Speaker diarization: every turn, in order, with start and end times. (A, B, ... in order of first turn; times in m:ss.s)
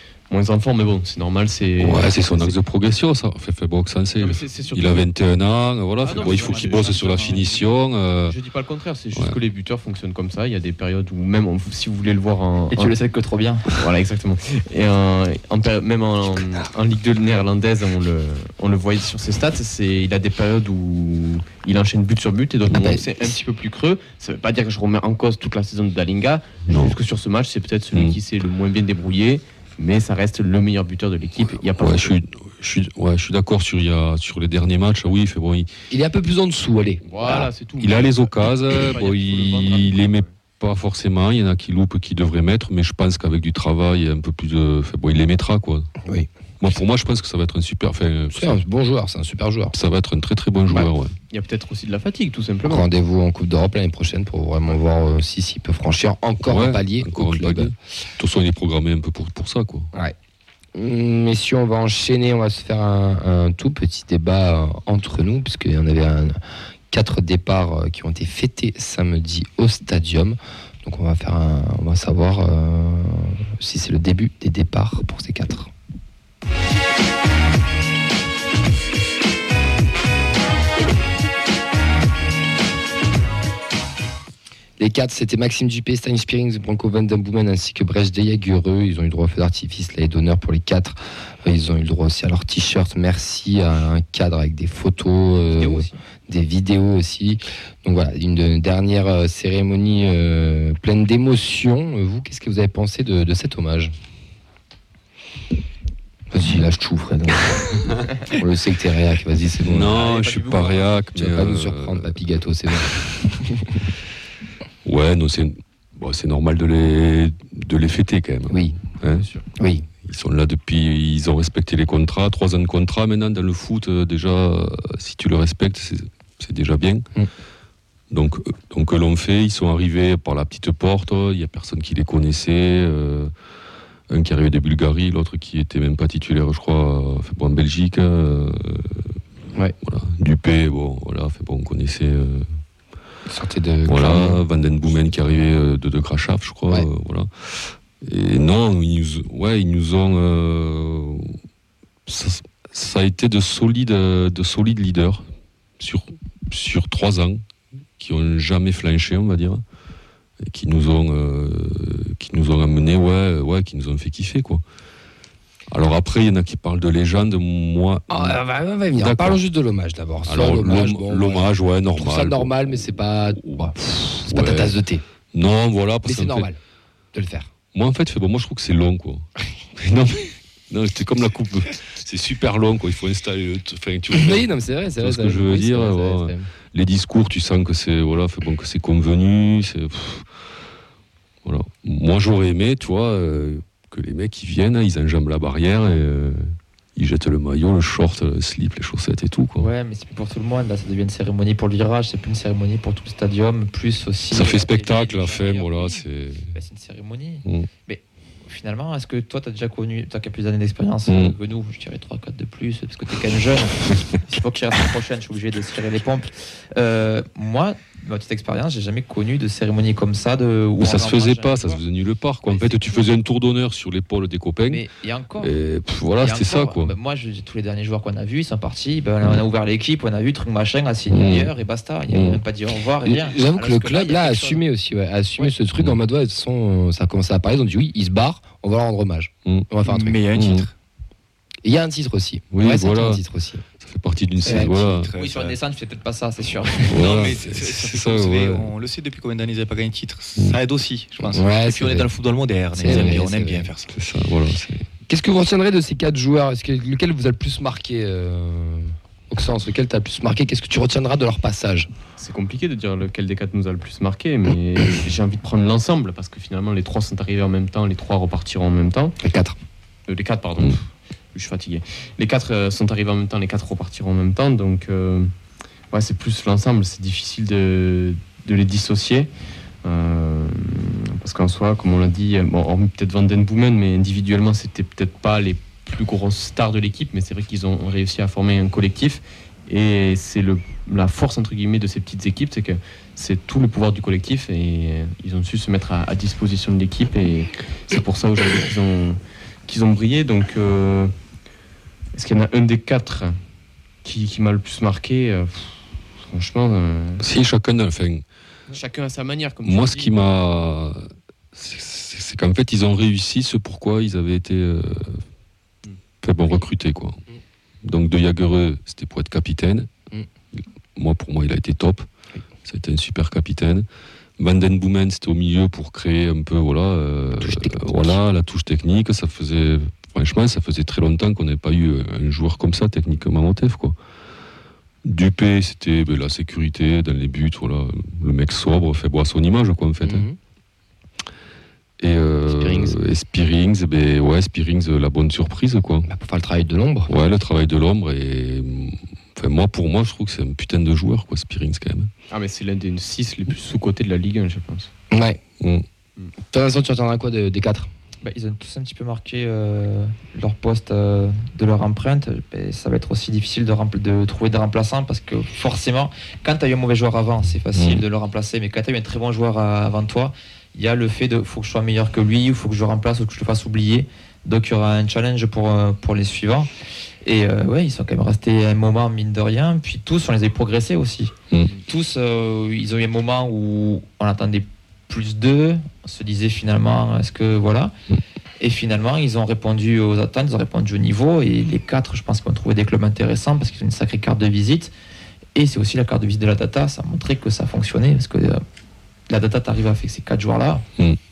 0:00.3-0:02.6 A
0:01.8-0:08.4 B
0:04.2-0:05.1 A
0:06.0-0:07.7 A
0:06.1-0:07.4 C
0:08.2-0:12.9 A
0:09.1-0:09.4 B
0:12.7-0:13.7 C
0:13.7-0:32.2 A
0:22.7-0:23.4 D
0:26.7-0:27.0 B
0:27.9-0:28.2 B
0:31.6-0:35.7 B
0:35.9-0:37.5 D
0:37.1-0:40.3 A
0:37.3-0:45.9 B
0:46.0-0:46.3 D
0:46.6-0:48.6 B
0:48.3-0:49.7 D
0:49.7-0:51.2 B
0:51.3-0:52.9 A
0:52.6-0:57.7 D
0:56.4-0:59.9 B
1:00.7-1:06.4 D
1:06.9-1:15.7 D
1:24.8-1:43.9 D
1:35.5-1:36.0 C
1:46.3-1:50.0 D
1:49.6-1:52.2 B
1:49.9-1:50.9 A
1:51.2-1:53.8 D
1:52.7-1:53.3 B
1:54.8-1:59.3 B
1:58.5-1:58.7 D
1:59.6-1:59.9 D
2:00.0-2:07.1 B
2:08.1-2:13.3 B
2:14.1-2:19.2 B
2:19.8-2:22.5 B
2:23.3-2:24.4 D
2:23.8-2:31.4 B
2:32.1-2:35.3 B
2:35.8-2:37.4 B
2:38.0-2:39.6 B
2:40.4-2:44.6 B
2:45.7-2:48.4 B
2:48.1-2:55.0 D
2:48.9-2:49.4 B
2:50.2-2:52.7 B
2:53.3-2:53.7 B
2:54.2-2:54.8 B
2:55.3-2:56.5 B
2:56.0-2:56.6 D
2:57.1-2:57.5 D
2:57.7-3:10.3 B
3:04.1-3:06.5 D
3:11.4-3:19.7 B
3:19.6-3:41.8 C
3:24.3-3:26.5 B
3:31.1-3:31.3 B
3:40.8-3:44.8 B
3:42.4-3:43.1 C
3:44.7-3:45.5 C
3:45.4-3:47.0 B
3:46.2-3:54.6 C
3:51.1-3:51.5 B
3:52.1-3:52.4 B
3:53.0-4:00.2 D
3:59.8-4:00.7 E
4:00.3-4:00.7 B
4:01.6-4:03.6 D
4:02.5-4:03.2 B
4:03.8-4:05.1 B
4:04.4-4:04.8 D
4:04.4-4:05.6 E
4:04.4-4:07.4 C
4:06.9-4:13.9 E
4:06.9-4:08.7 B
4:11.2-4:12.1 D
4:12.8-4:13.7 D
4:12.8-4:13.2 B
4:13.9-4:14.9 B
4:15.1-4:21.9 D
4:22.2-4:29.2 A
4:29.2-4:29.6 D
4:30.1-4:35.3 A
4:35.9-4:39.3 A
4:39.8-5:01.1 A
5:02.1-5:03.4 A
5:04.0-5:07.2 A
5:07.2-5:08.2 B
5:08.7-5:10.2 A
5:09.6-5:15.2 B
5:16.2-5:17.2 B
5:17.8-5:19.9 B
5:20.6-5:22.1 B
5:22.6-5:23.8 B
5:24.4-5:34.0 B
5:27.4-5:28.2 D
5:35.0-5:40.2 B
5:40.0-5:40.4 D
5:42.0-5:46.1 B
5:42.5-5:43.0 D
5:46.0-5:47.1 D
5:47.1-5:52.1 B
5:52.3-5:54.9 A
5:55.1-5:55.4 D
5:55.6-5:55.8 B
5:56.5-5:57.9 D
5:58.2-6:16.7 C
6:07.7-6:08.0 B
6:17.2-6:21.3 C
6:21.9-6:27.9 C
6:28.6-6:34.9 C
6:35.5-6:38.6 C
6:39.3-6:40.8 C